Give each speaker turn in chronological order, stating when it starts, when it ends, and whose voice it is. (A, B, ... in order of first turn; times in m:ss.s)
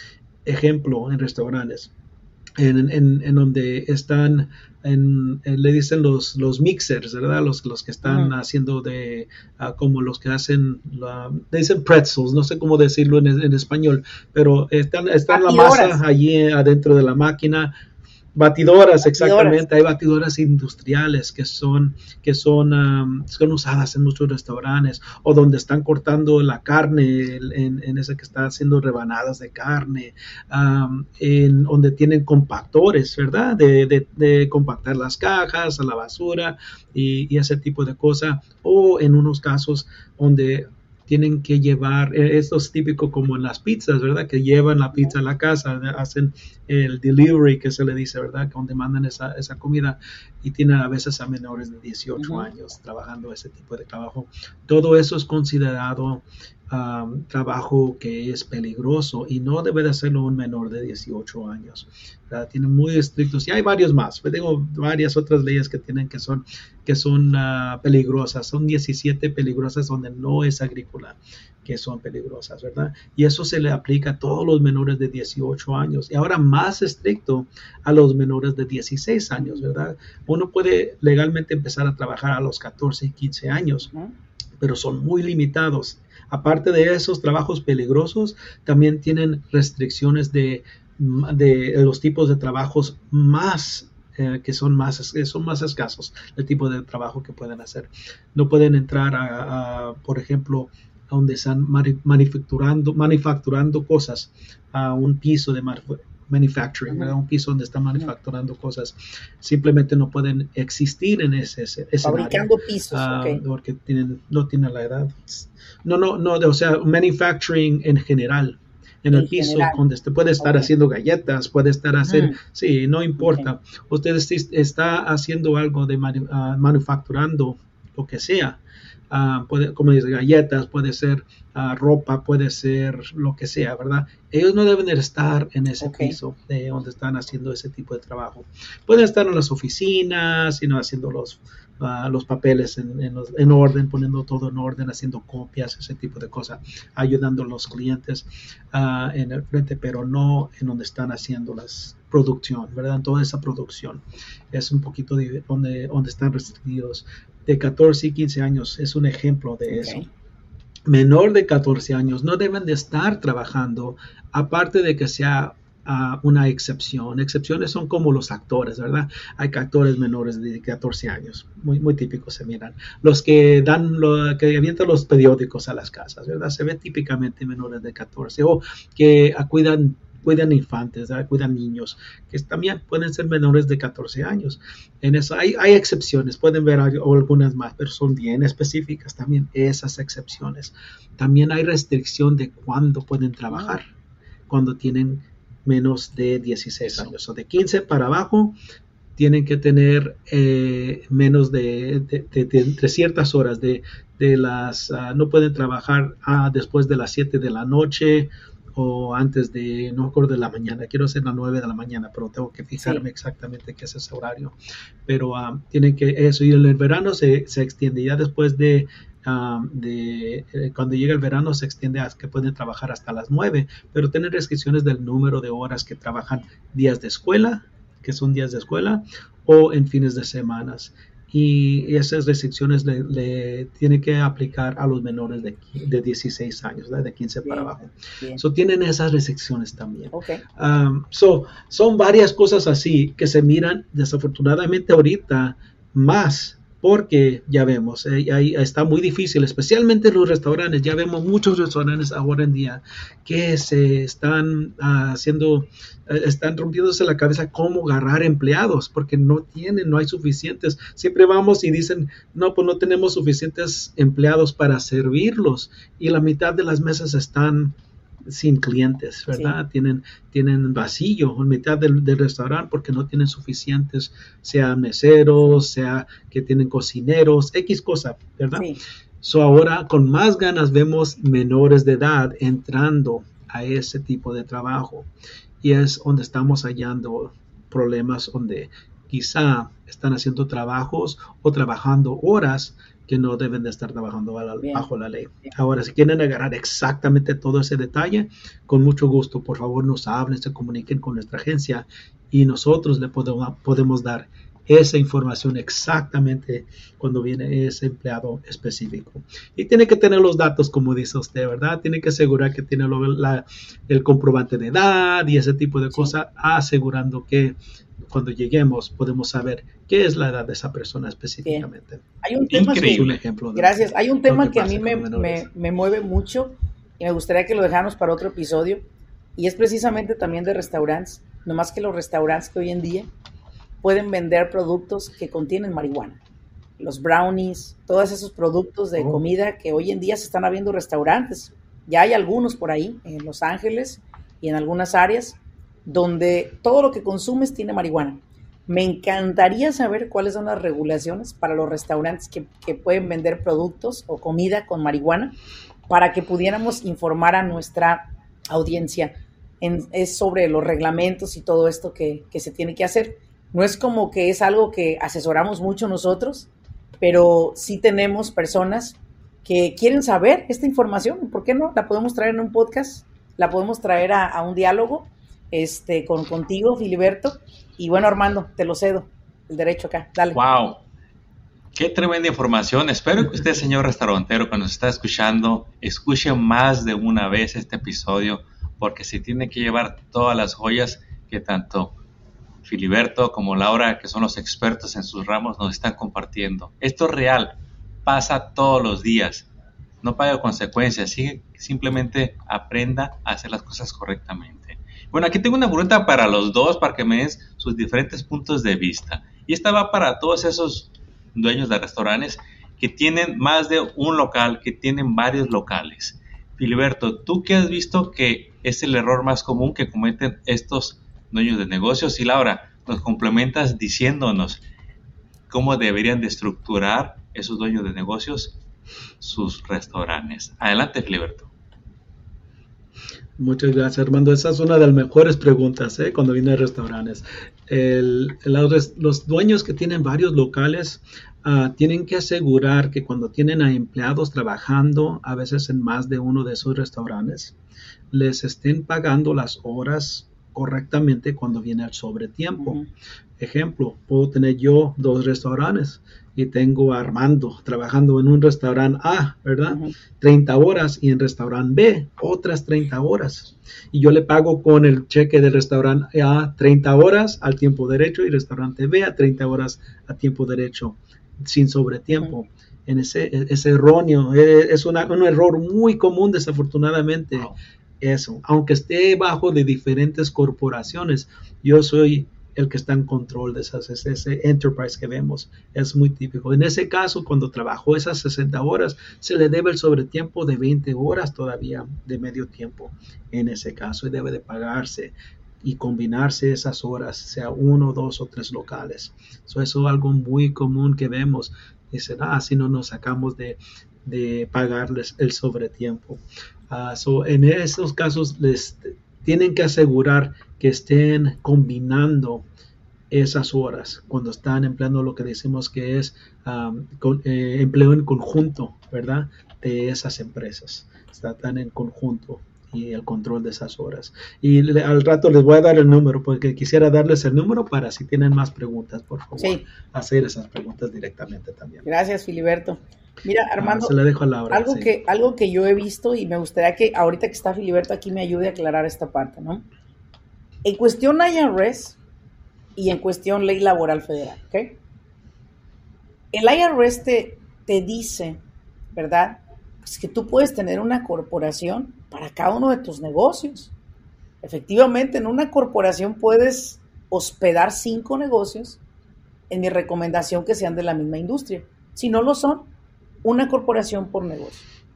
0:00.4-0:01.9 A
0:02.6-0:17.7 A
0:08.0-0:08.3 B
0:15.3-0:16.0 B
0:18.4-1:23.9 A
0:19.0-0:19.6 B
0:52.2-0:52.5 B
1:24.6-2:08.6 A
1:52.0-1:53.4 B
1:59.1-1:59.8 B
2:00.4-2:00.7 B
2:02.1-2:02.4 B
2:03.2-2:03.5 B
2:09.1-2:40.1 A
2:15.8-2:16.2 B
2:39.7-2:40.1 B
2:40.9-3:13.9 A
3:14.5-3:18.6 A
3:19.2-3:34.6 A
3:35.1-4:38.7 A
3:57.4-3:57.7 B
4:00.1-4:00.4 B
4:39.2-4:45.1 A
4:45.6-5:17.6 A
5:18.1-5:22.0 A
5:22.2-5:28.8 B
5:22.5-5:23.2 C
5:22.8-5:25.5 A
5:29.4-5:33.1 B
5:33.8-5:36.2 B
5:36.8-5:55.4 B
5:55.9-6:06.5 B
6:07.0-6:20.4 B
6:20.3-6:20.8 C
6:21.8-6:32.0 C
6:32.6-6:39.5 C
6:40.0-7:04.6 C
7:05.5-7:08.6 C
7:09.2-7:11.5 C
7:13.4-7:27.6 A
7:28.1-7:32.8 A
7:32.6-7:32.9 B
7:33.4-8:32.5 A
7:39.7-7:39.9 B
8:33.1-8:51.9 A
8:49.4-8:49.6 B
8:51.8-8:54.0 B
8:53.6-8:54.9 A
8:54.5-8:59.6 B
9:00.6-9:02.0 B
9:02.8-9:04.8 B
9:06.3-9:08.4 B
9:09.0-9:13.7 B
9:14.4-9:18.8 B
9:19.5-9:22.7 B
9:23.2-9:24.7 B